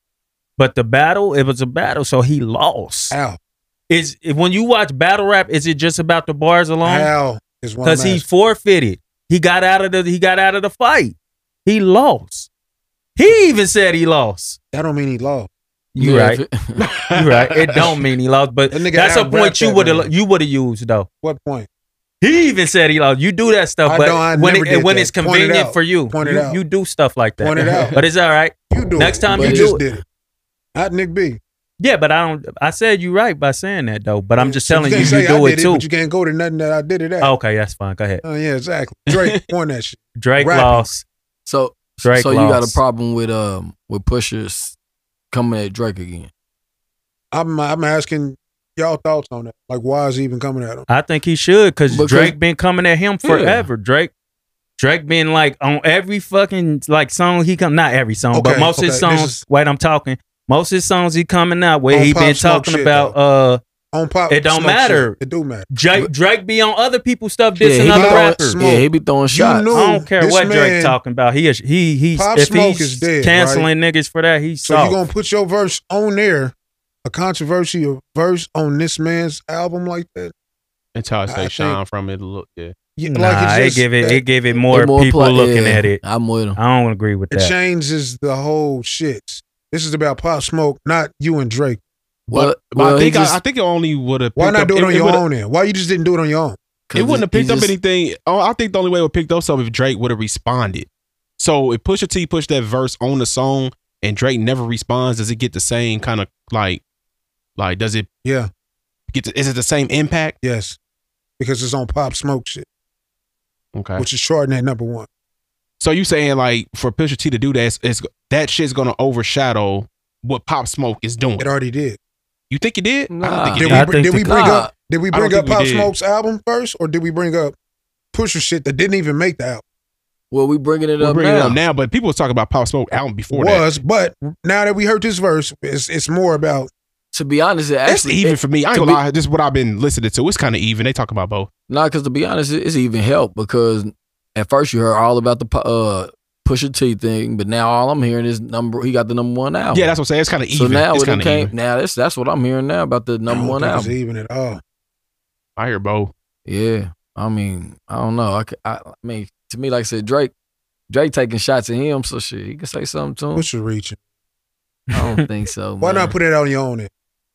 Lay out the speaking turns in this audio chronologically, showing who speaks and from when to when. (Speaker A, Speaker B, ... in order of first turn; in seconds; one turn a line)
Speaker A: 0.6-3.1
Speaker B: 3.1-3.4
Speaker A: 3.9-7.1
Speaker B: 6.8-8.2
Speaker A: 7.8-12.5
Speaker A: 13.2-14.6
Speaker B: 14.7-15.5
Speaker A: 15.9-16.4
Speaker C: 16.0-16.8
Speaker D: 16.8-18.1
Speaker A: 17.1-21.1
Speaker B: 18.7-20.1
Speaker B: 21.2-21.7
Speaker A: 22.2-29.8
Speaker B: 23.8-26.6
Speaker B: 27.4-28.0
Speaker B: 28.7-30.0
Speaker C: 29.3-29.7
Speaker B: 30.7-31.4
Speaker A: 31.8-35.8
Speaker B: 34.4-37.3
Speaker A: 37.2-38.2
Speaker B: 38.2-40.9
Speaker D: 39.1-39.4
Speaker A: 40.2-41.0
Speaker C: 41.5-44.7
Speaker A: 42.0-42.8
Speaker C: 45.3-46.3
Speaker B: 47.3-50.9
Speaker A: 50.9-54.1
Speaker C: 51.9-52.4
Speaker C: 53.2-53.7
Speaker A: 54.8-63.6
Speaker B: 58.3-59.4
Speaker B: 61.9-63.1
Speaker B: 63.9-66.1
Speaker A: 64.3-65.2
Speaker A: 65.7-68.6
Speaker C: 67.6-69.7
Speaker B: 67.8-71.0
Speaker A: 69.7-75.0
Speaker B: 72.1-73.7
Speaker B: 74.6-76.5
Speaker B: 77.0-80.3
Speaker D: 80.9-82.7
Speaker B: 81.3-81.8
Speaker B: 83.0-84.2
Speaker A: 83.1-86.0
Speaker C: 84.7-86.6
Speaker A: 86.5-87.5
Speaker B: 87.3-91.8
Speaker C: 92.3-93.4
Speaker D: 92.3-95.2
Speaker B: 94.3-96.6
Speaker C: 96.9-97.7
Speaker D: 96.9-106.8
Speaker D: 107.6-108.1
Speaker B: 108.2-108.5
Speaker D: 109.1-110.3
Speaker B: 110.4-110.8
Speaker B: 111.4-112.7
Speaker D: 113.7-114.0
Speaker B: 114.0-115.1
Speaker D: 115.8-121.5
Speaker B: 121.4-122.0
Speaker D: 122.5-123.9
Speaker C: 123.1-124.7
Speaker B: 123.6-127.5
Speaker A: 123.7-124.6
Speaker D: 125.1-125.9
Speaker B: 128.1-129.6
Speaker C: 130.3-131.6
Speaker D: 131.0-133.7
Speaker B: 133.3-136.7
Speaker C: 137.1-139.0
Speaker D: 137.8-141.5
Speaker C: 141.7-149.9
Speaker D: 149.7-151.5
Speaker C: 150.5-153.9
Speaker B: 153.3-154.6
Speaker D: 155.6-156.1
Speaker C: 156.4-160.3
Speaker C: 160.9-163.4
Speaker B: 163.3-164.0
Speaker C: 164.9-166.1
Speaker B: 165.8-166.9